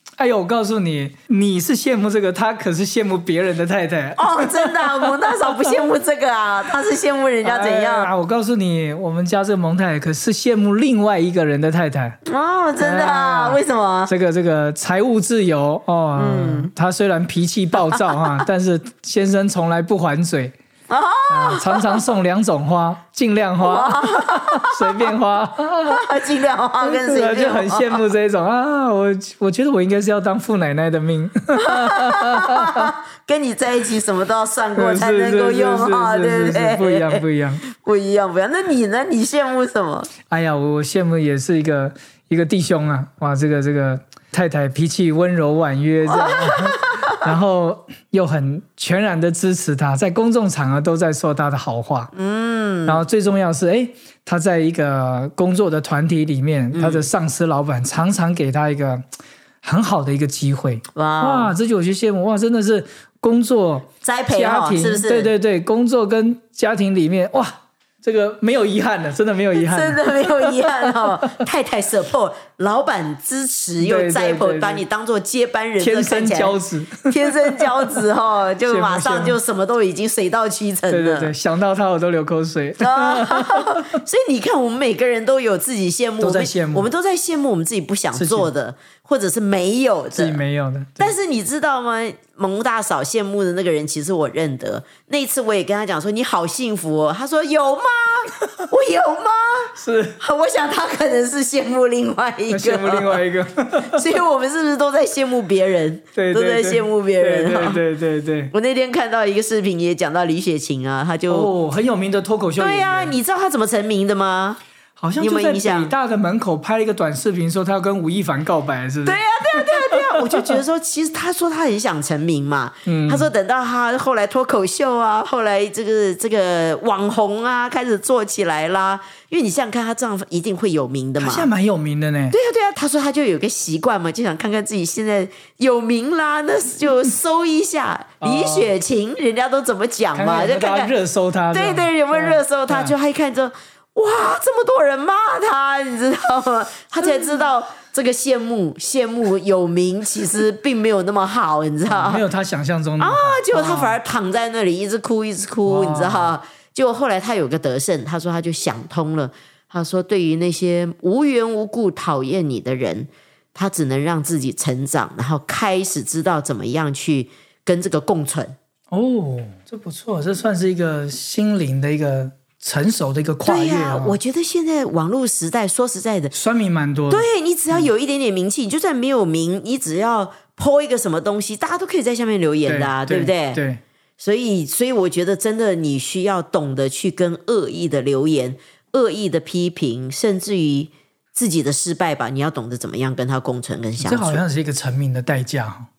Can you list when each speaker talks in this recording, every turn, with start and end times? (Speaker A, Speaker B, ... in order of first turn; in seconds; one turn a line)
Speaker A: 0.2-5.7
Speaker B: 4.2-8.1
Speaker A: 7.4-12.2
Speaker B: 12.3-14.1
Speaker A: 12.8-20.6
Speaker B: 16.2-16.7
Speaker B: 20.9-22.0
Speaker A: 21.3-26.1
Speaker B: 23.6-24.8
Speaker B: 25.9-28.0
Speaker A: 26.8-32.9
Speaker B: 31.6-40.1
Speaker A: 34.7-37.6
Speaker A: 40.3-52.1
Speaker B: 46.1-47.2
Speaker B: 52.1-53.0
Speaker A: 52.9-59.0
Speaker B: 56.7-57.1
Speaker A: 59.6-71.3
Speaker B: 61.0-61.5
Speaker B: 64.0-65.3
Speaker B: 69.5-81.3
Speaker A: 73.8-74.8
Speaker A: 75.8-77.9
Speaker A: 78.7-79.4
Speaker A: 80.9-83.9
Speaker B: 82.8-90.4
Speaker A: 86.2-86.9
Speaker A: 88.1-88.5
Speaker A: 90.1-91.2
Speaker B: 91.0-103.2
Speaker A: 99.8-100.2
Speaker A: 102.5-104.0
Speaker B: 103.9-107.8
Speaker A: 106.2-108.5
Speaker B: 108.5-111.5
Speaker A: 111.3-113.1
Speaker B: 112.6-114.6
Speaker A: 115.0-120.6
Speaker B: 115.2-115.9
Speaker B: 119.0-131.5
Speaker A: 122.9-123.3
Speaker A: 131.2-132.3
Speaker B: 132.3-140.9
Speaker A: 138.2-138.7
Speaker A: 140.1-143.0
Speaker B: 141.5-152.2
Speaker A: 147.1-147.3
Speaker A: 151.9-154.0
Speaker B: 153.0-168.6
Speaker A: 155.7-156.3
Speaker A: 168.9-174.2
Speaker B: 173.4-176.3
Speaker A: 176.3-177.9
Speaker B: 177.1-183.6
Speaker A: 182.7-183.8
Speaker B: 184.2-194.4
Speaker A: 194.0-195.9